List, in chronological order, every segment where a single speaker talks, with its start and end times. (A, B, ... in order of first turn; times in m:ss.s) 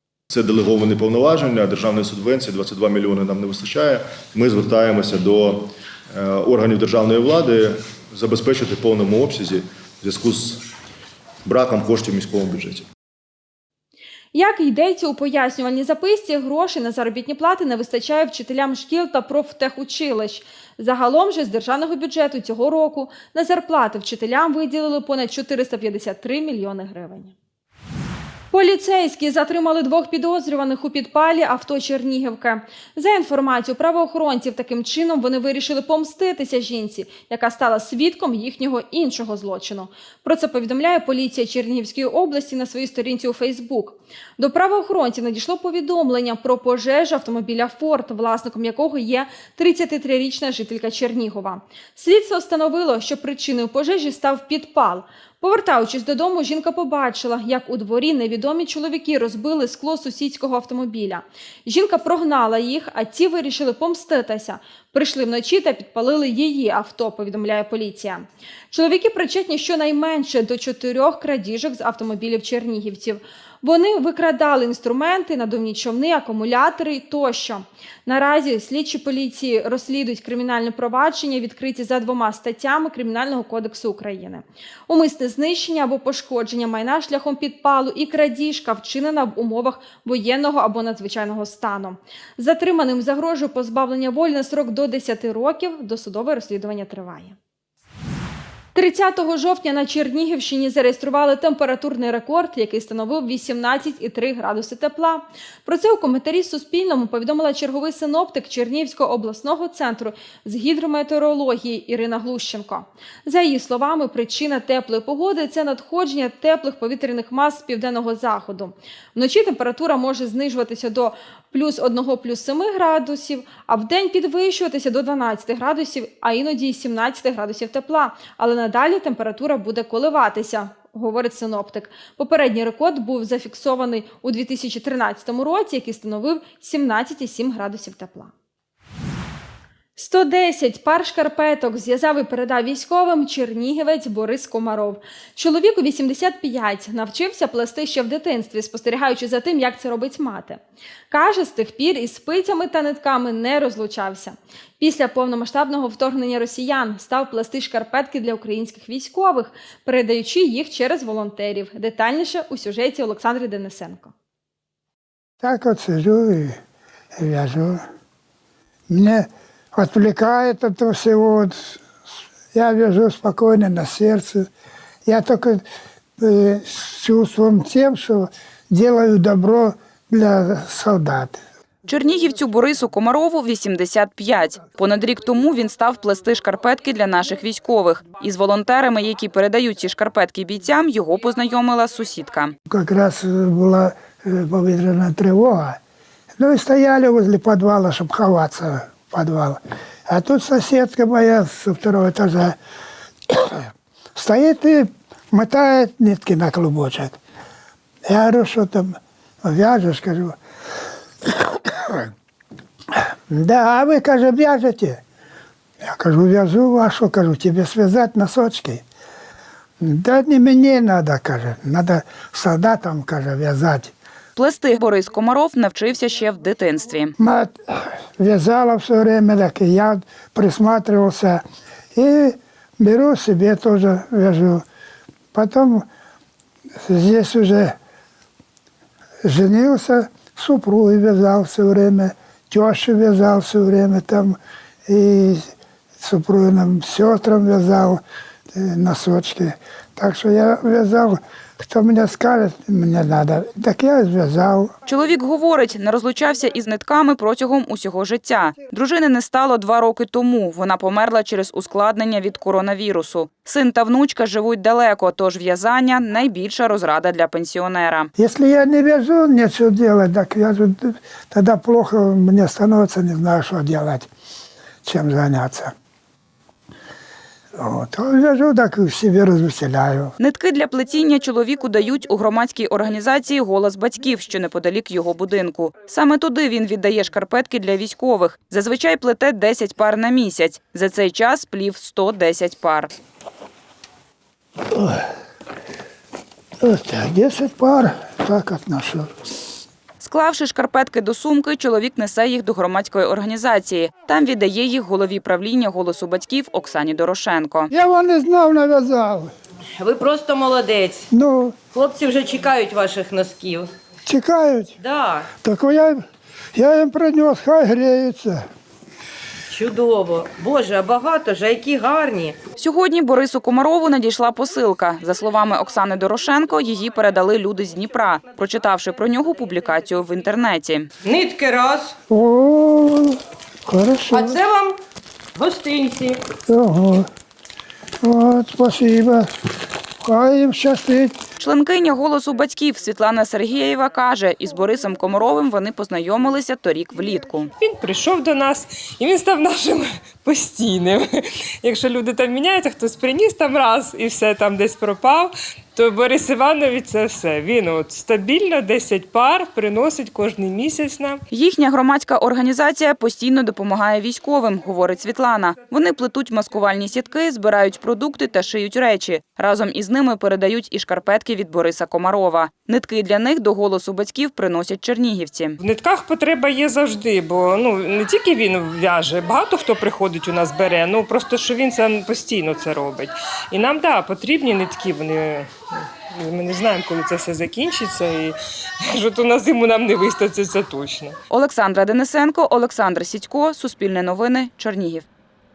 0:00.3-0:10.6 A
0:11.4-0:12.8 A
0:14.3-0:27.4 B
0:28.5-1:37.4 B
1:38.7-2:18.3 B
2:20.0-2:44.1 B
2:45.4-2:46.6 C
2:47.2-2:47.8 C
2:48.9-2:51.8 C
2:52.5-2:54.5 C
2:55.0-2:55.6 C
2:56.2-3:01.4 C
3:01.9-3:12.5 D
3:12.7-3:15.8 C
3:16.4-3:22.6 C
3:23.3-3:27.2 C
3:28.0-3:30.4 C
3:31.3-3:32.1 C
3:33.3-3:35.0 C
3:35.8-3:38.8 C
3:39.8-3:43.9 C
3:44.4-3:47.1 D
3:47.2-3:51.4 C
3:52.0-3:54.6 C
3:55.3-3:55.8 C
3:56.8-3:57.8 C
3:59.2-4:05.5 C
4:06.0-4:08.0 C
4:08.5-4:14.7 C
4:14.9-4:28.1 D
4:28.2-4:34.1 C
4:34.8-4:35.7 C
4:37.6-4:40.1 C
4:40.2-4:52.9 D
4:54.7-4:55.0 C
4:56.6-4:59.1 C
5:00.0-5:07.7 D
5:07.7-5:09.3 C
5:09.8-5:11.1 E
5:11.1-5:11.5 C
5:11.7-5:13.7 E
5:14.0-5:14.8 C
5:14.8-5:15.3 E
5:15.4-5:16.0 C
5:16.5-5:18.4 C
5:19.5-5:22.4 E
5:22.6-5:30.9 D
5:31.0-5:31.9 E
5:32.1-5:34.4 C
5:34.1-5:34.8 E
5:35.4-5:36.2 E
5:36.5-5:37.0 C
5:38.0-5:39.2 C
5:40.0-5:41.2 C
5:41.4-5:47.5 D
5:47.6-6:01.2 F
6:01.3-6:15.6 D
6:15.6-6:31.2 F
6:31.3-6:35.0 D